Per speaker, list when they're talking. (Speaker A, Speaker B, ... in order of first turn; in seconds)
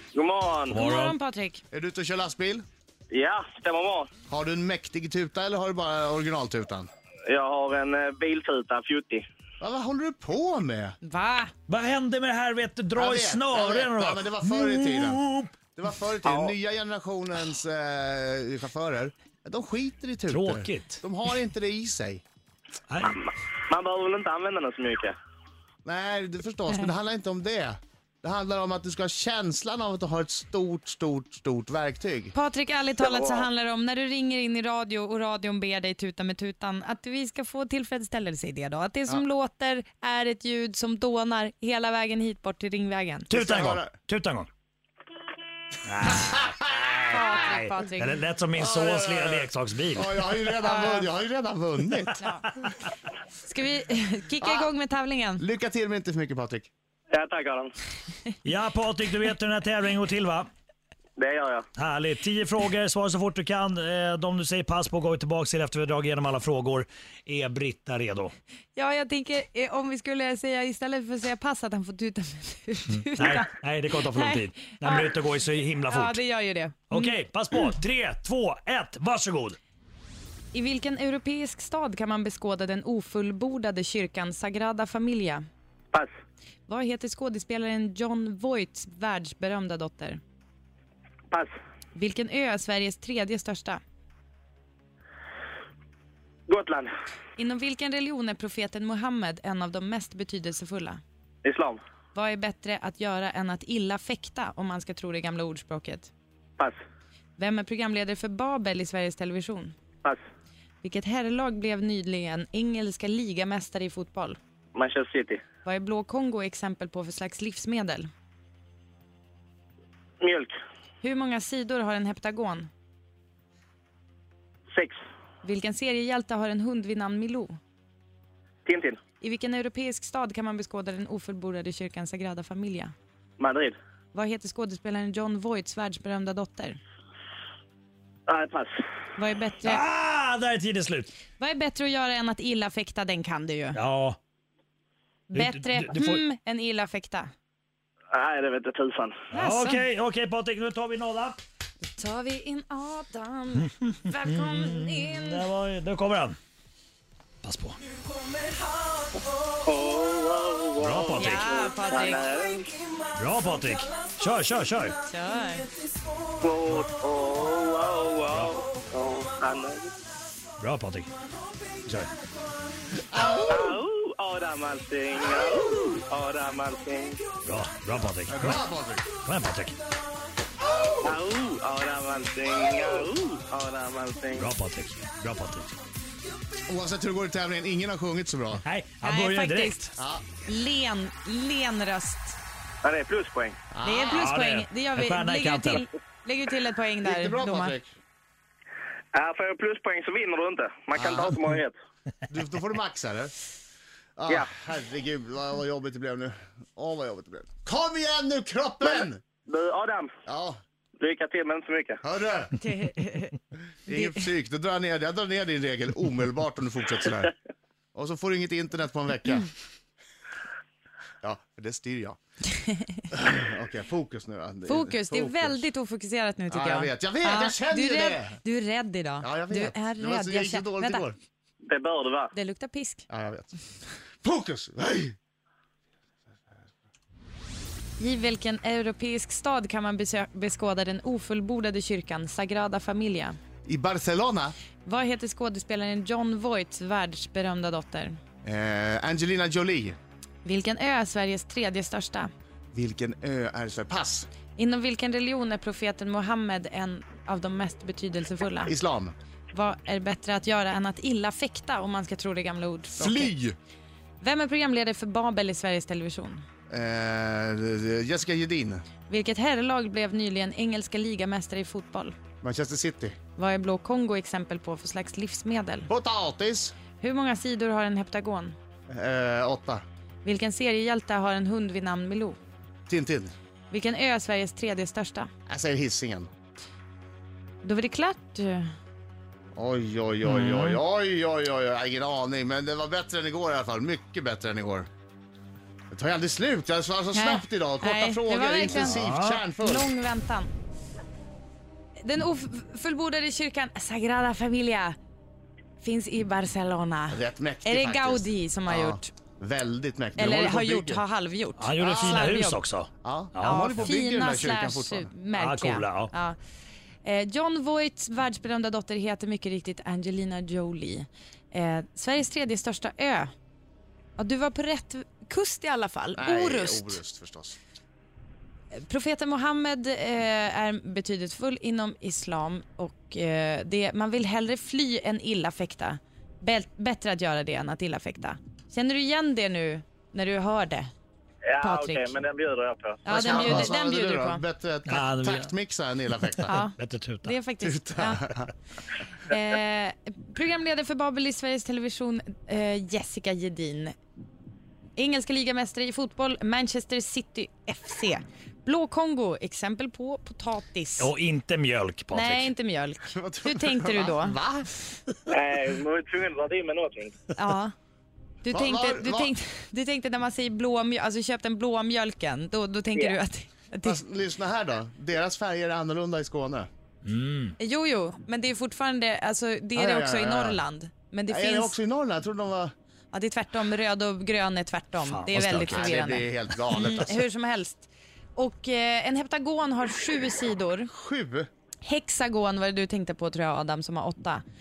Speaker A: 0.1-0.8, 3.1-4.1, 7.3-9.2, 16.2-16.5, 23.0-25.1, 33.0-33.5, 57.1-57.7, 61.2-61.6, 96.5-96.9, 101.4-101.8, 114.7-115.4, 120.2-120.5, 128.7-129.0, 133.4-133.8, 138.3-138.8, 148.1-149.2, 159.6-162.7, 166.4-169.9, 173.4-177.2, 181.0-184.5, 192.8-193.6, 199.1-201.7, 208.8-210.1, 211.0-212.0, 231.6-232.3, 341.5-343.7, 365.3-367.1
Speaker B: 0.7-1.1, 11.7-15.7, 20.3-21.0, 43.3-44.5, 45.9-50.4, 58.4-60.5, 61.8-68.3, 72.9-76.2, 76.9-79.6, 139.6-141.1, 143.7-144.2, 145.3-146.2, 149.4-151.4, 154.3-156.4, 157.4-157.8, 160.8-161.4, 163.1-164.9, 170.6-171.1, 171.8-172.1, 177.4-179.8, 184.4-185.8, 188.6-189.8, 194.2-195.8, 290.2-290.8, 298.8-299.4, 311.6-313.9, 315.3-316.1, 344.9-345.5, 346.6-347.3, 361.0-362.5, 377.0-377.5, 385.1-385.9
Speaker C: 0.7-1.6, 11.0-11.5, 32.3-43.4, 47.0-48.2, 50.5-51.1, 52.1-52.5, 53.4-55.5, 68.7-75.1, 75.8-77.1, 80.5-85.4, 86.7-90.2, 91.9-93.8, 97.4-101.0, 102.1-106.1, 107.4-109.7, 110.8-114.4, 115.6-118.1, 121.0-122.7, 125.4-127.5, 129.2-132.9, 134.1-136.8, 139.2-139.8, 141.4-143.8, 145.3-147.3, 149.3-149.8, 151.8-155.5, 161.1-162.2, 165.0-165.7, 189.0-192.4, 193.8-197.8, 212.6-214.3, 224.7-231.1, 232.3-233.0, 238.0-243.4, 244.8-248.2, 250.4-252.3, 254.6-258.7, 259.5-263.3, 264.2-266.4, 269.1-272.2, 273.3-275.9, 276.9-278.6, 280.2-282.4, 283.7-285.3, 287.6-288.7, 297.1-300.5, 302.0-304.9, 305.8-309.1, 310.2-312.6, 313.4-316.4, 317.0-323.3, 324.2-327.0, 328.7-340.9, 341.6-342.1, 343.0-344.4, 346.4-348.4, 349.2-353.9, 355.0-361.1, 362.1-364.4, 367.3-367.7, 368.4-374.0, 377.6-381.8, 383.1-390.9, 391.8-394.4
Speaker D: 1.7-2.6, 4.3-6.9, 9.6-10.9, 12.9-22.2, 25.8-32.3, 43.3-44.0, 46.1-46.4, 48.5-52.2, 55.4-56.7, 173.1-173.8, 178.3-179.1, 186.7-188.6, 189.9-190.3, 193.7-194.3, 197.0-197.9, 202.3-203.3, 204.2-209.2, 210.2-210.6, 212.0-212.6, 213.9-217.3, 217.9-219.5, 221.2-222.2, 223.1-225.7, 226.5-228.4, 229.2-231.2, 233.1-233.5, 234.2-235.2, 243.7-244.6, 248.4-250.0, 252.7-254.3, 258.7-259.1, 263.0-263.6, 266.7-268.8, 272.4-273.2, 275.9-276.8, 278.9-279.8, 282.9-283.3, 285.5-286.3, 289.5-294.9, 295.9-299.9, 307.1-311.0, 311.8-312.3, 313.0-315.2, 326.1-327.6, 343.1-346.6, 347.6-348.5, 363.1-365.1, 368.5-369.3, 373.8-376.7, 379.7-380.6, 381.3-382.7, 385.5-387.1, 390.9-391.5